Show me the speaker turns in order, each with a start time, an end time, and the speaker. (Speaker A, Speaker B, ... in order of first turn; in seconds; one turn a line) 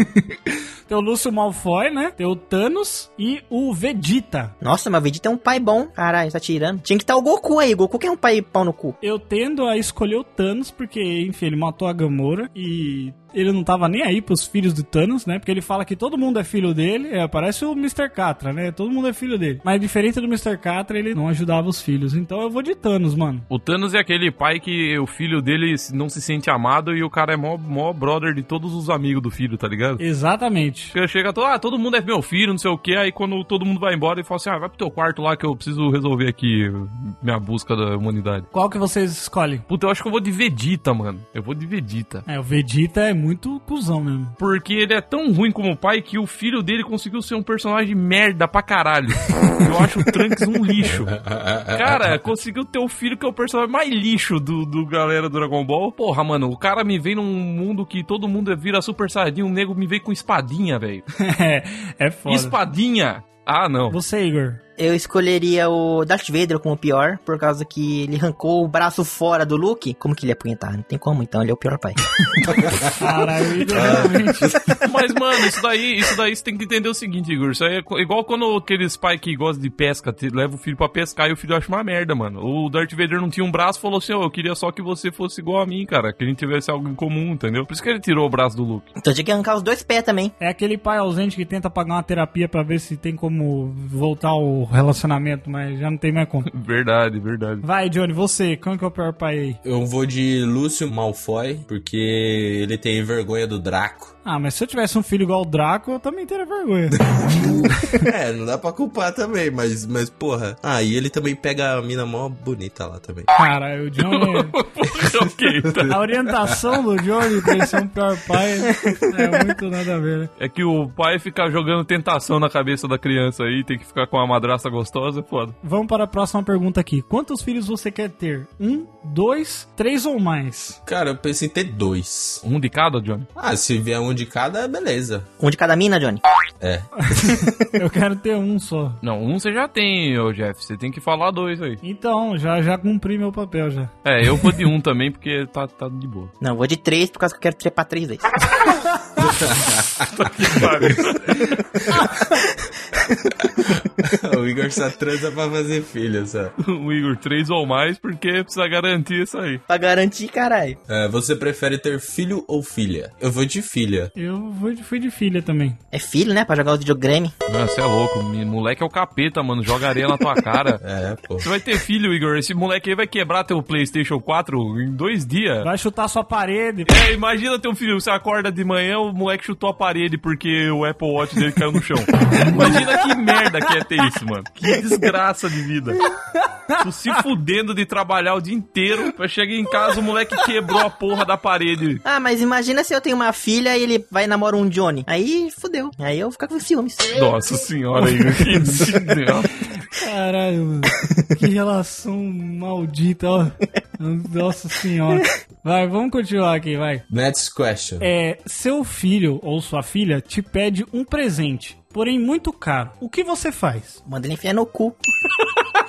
Speaker A: 0.9-4.5
Speaker B: 4.6-9.0
Speaker A: 9.0-23.5
Speaker C: 23.5-30.0
Speaker A: 30.0-30.9
Speaker C: 30.9-38.5
Speaker A: 38.5-39.6
Speaker C: 39.7-42.2
Speaker A: 42.3-44.4
Speaker C: 44.4-51.2
Speaker D: 51.1-52.2
Speaker C: 51.7-61.1
Speaker A: 61.2-62.6
Speaker C: 62.3-64.0
Speaker A: 63.9-64.6
Speaker B: 64.8-72.2
Speaker D: 72.5-72.9
Speaker A: 73.0-74.6
Speaker D: 73.7-74.8
Speaker C: 74.8-88.9
Speaker B: 89.0-90.3
Speaker A: 90.4-96.5
Speaker C: 96.5-97.6
Speaker A: 97.6-99.6
Speaker D: 99.6-104.1
Speaker A: 104.2-107.0
Speaker D: 107.1-113.3
Speaker A: 113.3-114.6
Speaker C: 114.0-116.0
Speaker A: 115.8-120.3
Speaker C: 120.4-125.6
Speaker A: 125.6-130.8
Speaker D: 130.9-132.4
Speaker C: 132.4-133.3
Speaker D: 133.4-135.3
Speaker B: 135.4-136.2
Speaker D: 136.6-137.3
Speaker A: 137.0-139.0
Speaker C: 139.0-141.8
Speaker A: 141.8-143.9
Speaker C: 144.0-146.3
Speaker B: 146.4-148.3
Speaker D: 149.2-150.1
Speaker C: 150.1-151.7
Speaker D: 153.6-156.5
Speaker C: 156.6-159.6
Speaker B: 159.7-160.8
Speaker D: 160.9-164.1
Speaker A: 164.2-165.8
Speaker B: 165.9-167.3
Speaker C: 167.5-170.8
Speaker D: 170.8-171.5
Speaker C: 171.4-175.7
Speaker A: 175.6-176.9
Speaker C: 176.9-186.1
Speaker A: 186.3-186.8
Speaker C: 186.8-192.0
Speaker B: 192.1-197.2
Speaker C: 197.1-199.6
Speaker A: 198.2-198.9
Speaker A: 199.8-207.1
Speaker D: 207.1-208.1
Speaker A: 208.0-214.0
Speaker B: 214.1-215.0